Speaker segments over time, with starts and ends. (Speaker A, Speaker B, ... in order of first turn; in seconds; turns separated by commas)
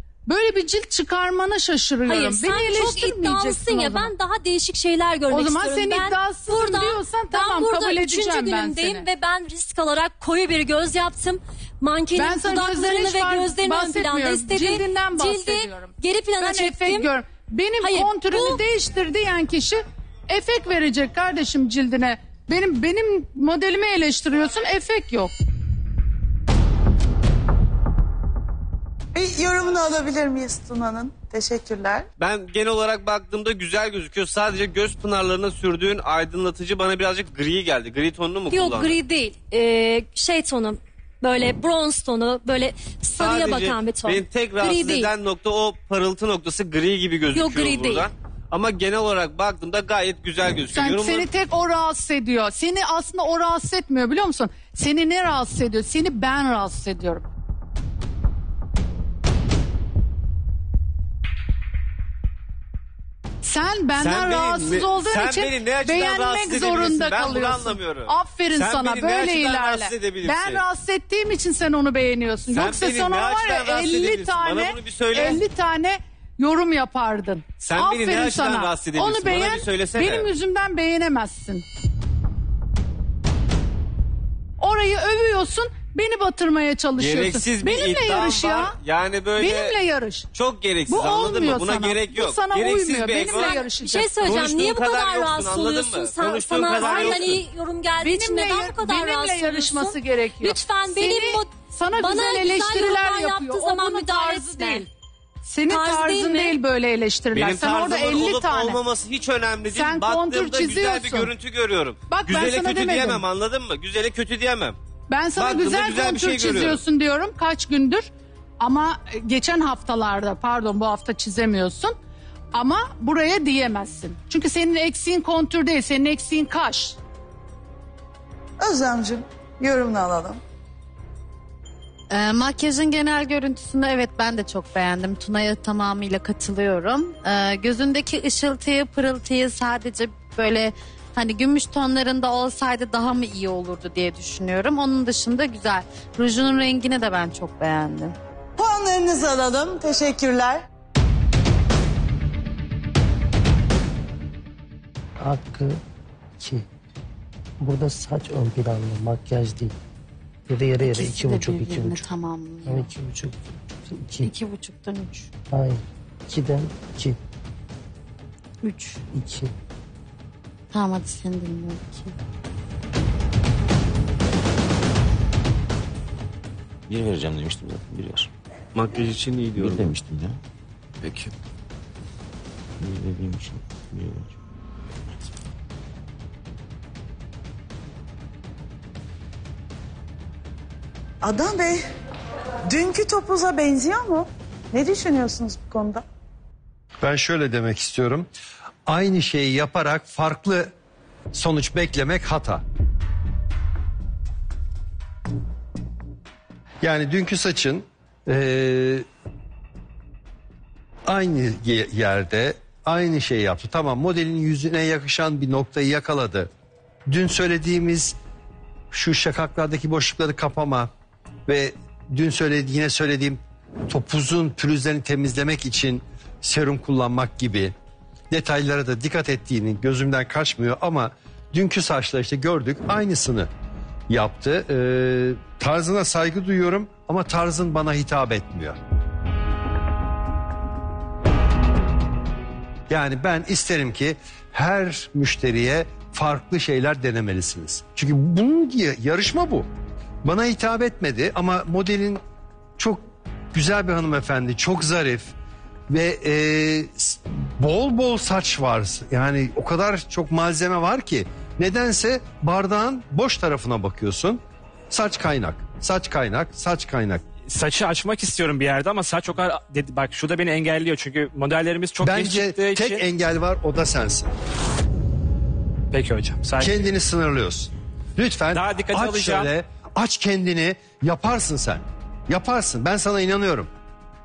Speaker A: 0.3-4.1, Speaker B: 2.1-17.1, Speaker A: 5.3-9.1, Speaker A: 12.1-25.3, Speaker B: 17.8-18.6, Speaker C: 29.1-32.1, Speaker D: 32.2-39.0, Speaker B: 38.5-45.1, Speaker D: 43.2-51.3, Speaker B: 47.3-48.0, Speaker A: 50.7-57.2, Speaker A: 63.4-81.6, Speaker D: 64.0-70.6, Speaker D: 72.5-75.4, Speaker D: 77.6-80.3, Speaker A: 84.6-88.8, Speaker D: 87.0-89.8, Speaker A: 89.4-90.3, Speaker D: 90.3-93.6, Speaker A: 90.9-94.1, Speaker B: 93.3-104.9, Speaker D: 94.2-97.4, Speaker A: 96.6-97.3, Speaker A: 98.0-104.9, Speaker A: 105.4-108.8, Speaker B: 105.7-106.6, Speaker D: 107.3-114.8, Speaker A: 109.7-111.3, Speaker A: 112.1-113.2, Speaker A: 115.1-122.0, Speaker D: 115.4-116.8, Speaker A: 122.5-127.0, Speaker C: 128.6-130.4, Speaker E: 132.1-148.1, Speaker C: 148.6-150.6, Speaker F: 155.2-155.8, Speaker F: 156.4-156.6, Speaker F: 157.6-159.7, Speaker F: 160.5-162.1, Speaker E: 160.8-162.9, Speaker F: 162.6-164.3, Speaker E: 164.1-165.3, Speaker F: 165.5-167.2, Speaker E: 168.6-169.0, Speaker F: 169.1-169.5, Speaker E: 170.7-172.1, Speaker G: 176.9-178.3, Speaker D: 178.7-179.9, Speaker G: 179.6-180.4, Speaker D: 181.0-181.3, Speaker G: 182.8-184.3, Speaker C: 191.2-191.8, Speaker C: 192.7-196.0, Speaker H: 197.0-198.3, Speaker H: 198.8-200.7, Speaker H: 201.3-202.6, Speaker H: 206.8-209.1, Speaker H: 211.1-216.5, Speaker H: 217.1-218.1, Speaker H: 218.9-220.9, Speaker H: 221.5-227.7, Speaker H: 228.3-233.5, Speaker H: 234.1-238.8, Speaker H: 242.9-249.7, Speaker H: 250.2-252.2, Speaker H: 252.8-255.3, Speaker H: 255.9-267.2, Speaker I: 267.5-273.0, Speaker H: 272.0-274.3, Speaker I: 275.9-276.7, Speaker H: 276.6-283.7, Speaker I: 278.5-279.5